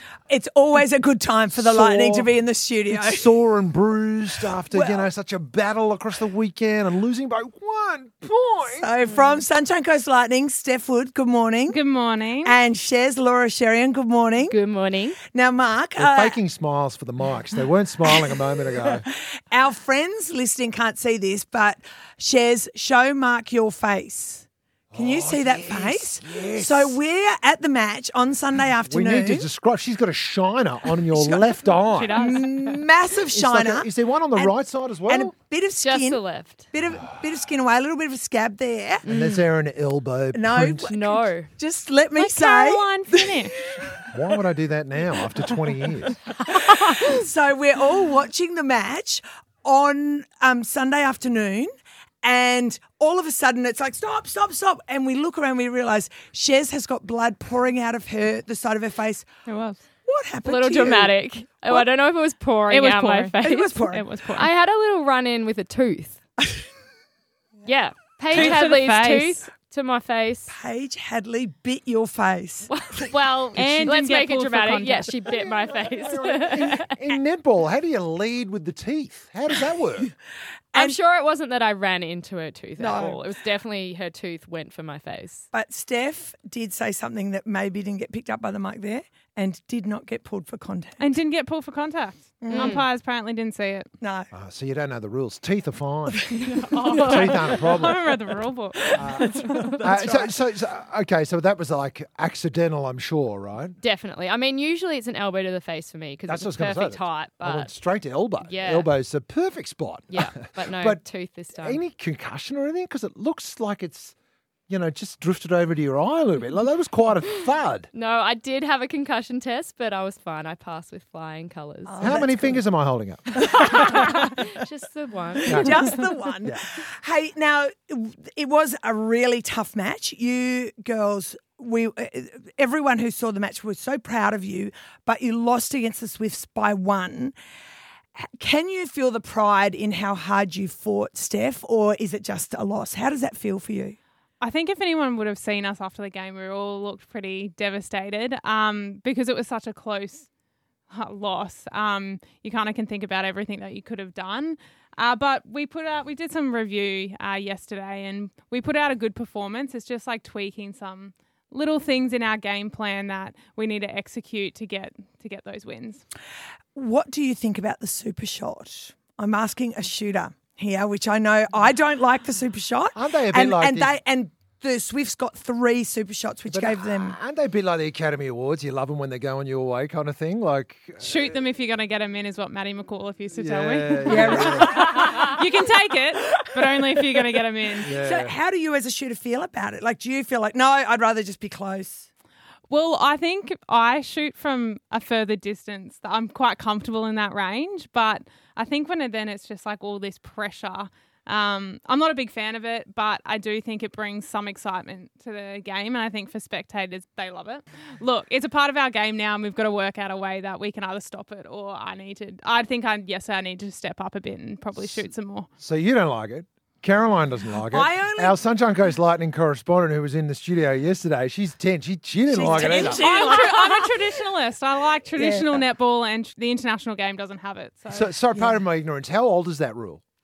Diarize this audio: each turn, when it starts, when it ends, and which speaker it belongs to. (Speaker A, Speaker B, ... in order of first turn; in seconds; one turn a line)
Speaker A: 0.3-3.3
Speaker B: 1.5-2.3
Speaker B: 2.9-8.9
Speaker A: 4.7-5.1
Speaker A: 8.7-11.8
Speaker C: 11.7-12.6
Speaker A: 12.4-14.6
Speaker D: 14.4-15.2
Speaker A: 15.3-16.4
Speaker B: 16.0-19.1
Speaker A: 18.8-29.5
Speaker B: 24.9-27.0
Speaker B: 28.9-32.4
Speaker A: 31.1-31.6
Speaker C: 31.9-32.7
Speaker A: 32.1-34.5
Speaker B: 33.3-35.3
Speaker A: 35.1-36.2
Speaker D: 35.8-36.6
Speaker A: 36.7-39.1
Speaker D: 39.1-39.5
Speaker B: 39.1-40.9
Speaker A: 40.3-43.4
Speaker D: 40.9-41.5
Speaker C: 42.2-43.6
Speaker B: 44.1-46.2
Speaker A: 46.4-51.7
Speaker A: 52.2-59.3
Speaker C: 59.5-59.8
Speaker A: 60.0-61.2
Speaker D: 60.5-66.2
Speaker C: 62.7-64.5
Speaker A: 63.4-64.1
Speaker D: 67.7-70.5
Speaker C: 68.3-69.5
Speaker A: 70.5-72.7
Speaker D: 72.7-77.0
Speaker C: 73.5-75.1
Speaker B: 73.6-73.9
Speaker B: 75.2-80.1
Speaker A: 80.7-81.0
Speaker D: 80.8-85.5
Speaker A: 82.8-83.3
Speaker A: 85.5-91.1
Speaker C: 91.0-93.9
Speaker A: 92.4-92.8
Speaker D: 92.5-92.8
Speaker A: 94.0-94.3
Speaker B: 94.3-96.3
Speaker C: 96.4-99.7
Speaker B: 96.9-98.0
Speaker A: 98.9-100.3
Speaker B: 99.0-103.8
Speaker D: 103.8-107.7
Speaker B: 106.3-111.0
Speaker D: 108.4-108.9
Speaker D: 110.1-111.8
Speaker B: 111.5-114.1
Speaker B: 114.7-117.9
Speaker D: 117.9-122.3
Speaker A: 121.9-122.6
Speaker B: 122.0-123.5
Speaker D: 123.4-125.6
Speaker B: 125.5-125.9
Speaker A: 125.5-137.3
Speaker A: 138.2-144.0
Speaker C: 144.4-150.3
Speaker C: 150.9-166.0
Speaker A: 166.8-177.2
Speaker B: 172.9-173.9
Speaker B: 176.5-181.2
Speaker C: 181.0-187.9
Speaker B: 183.4-185.1
Speaker A: 184.1-185.3
Speaker B: 187.8-188.4
Speaker A: 187.9-192.1
Speaker C: 192.7-215.5
Speaker B: 215.6-223.2
Speaker A: 217.7-218.4
Speaker A: 222.3-224.0
Speaker C: 222.7-228.1
Speaker A: 225.1-225.7
Speaker B: 227.9-230.0